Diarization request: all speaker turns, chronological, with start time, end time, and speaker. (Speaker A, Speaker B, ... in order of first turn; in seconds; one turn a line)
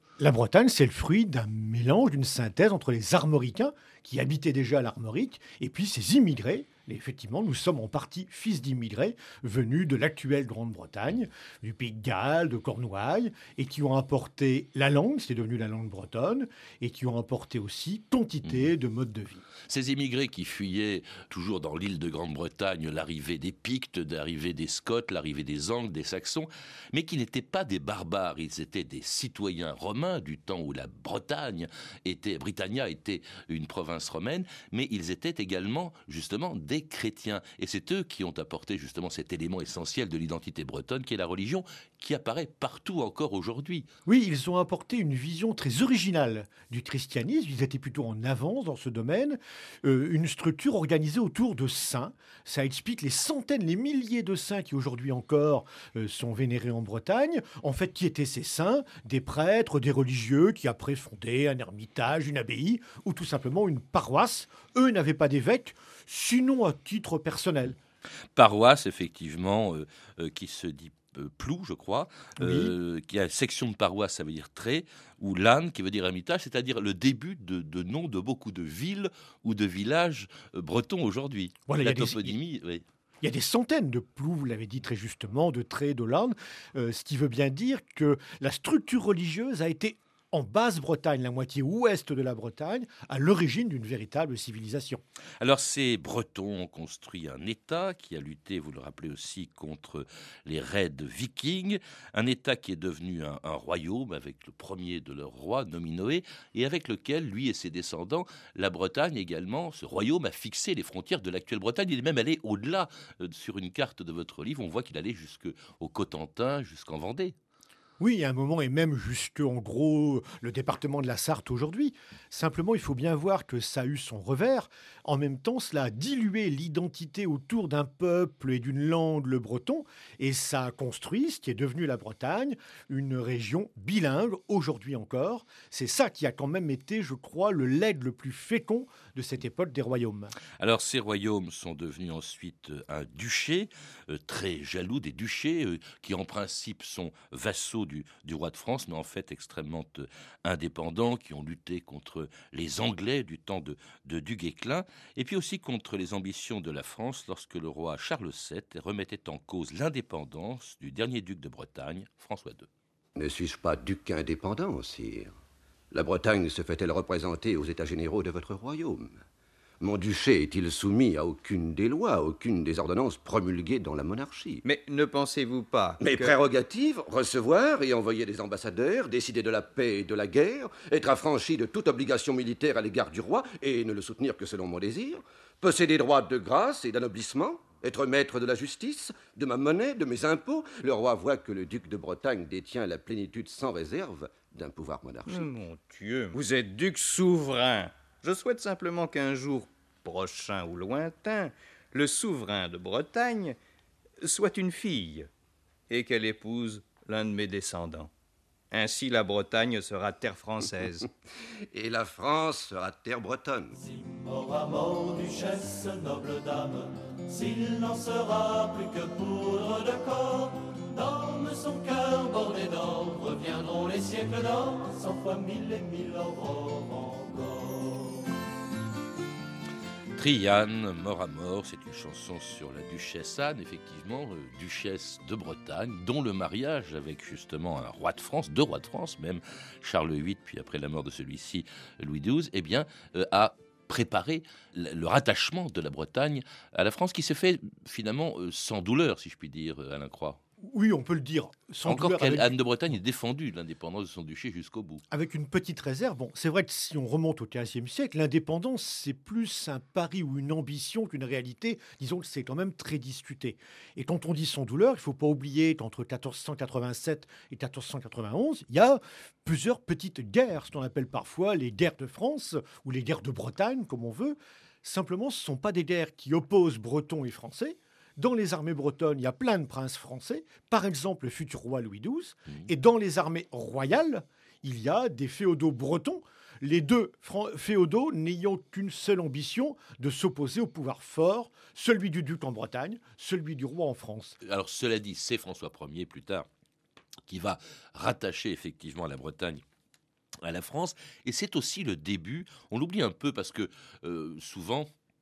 Speaker A: 0.2-19.4
Speaker B: 19.7-43.9
Speaker A: 44.1-67.8
Speaker B: 68.4-82.8
Speaker A: 72.4-72.7
Speaker A: 81.7-82.4
Speaker A: 83.2-95.0
Speaker B: 95.4-117.4
Speaker A: 118.0-140.3
Speaker B: 140.6-162.7
Speaker C: 163.2-165.3
Speaker C: 165.9-169.2
Speaker C: 169.8-174.7
Speaker D: 174.6-176.4
Speaker C: 176.0-195.5
Speaker D: 195.3-203.6
Speaker D: 204.2-205.3
Speaker D: 205.9-208.1
Speaker D: 208.7-211.1
Speaker C: 211.7-213.8
Speaker E: 213.8-228.3
Speaker B: 230.2-250.4
Speaker A: 250.6-252.6
Speaker B: 251.8-255.0
Speaker A: 255.1-294.4
Speaker B: 294.4-296.5
Speaker B: 297.3-299.6
Speaker B: 300.4-304.9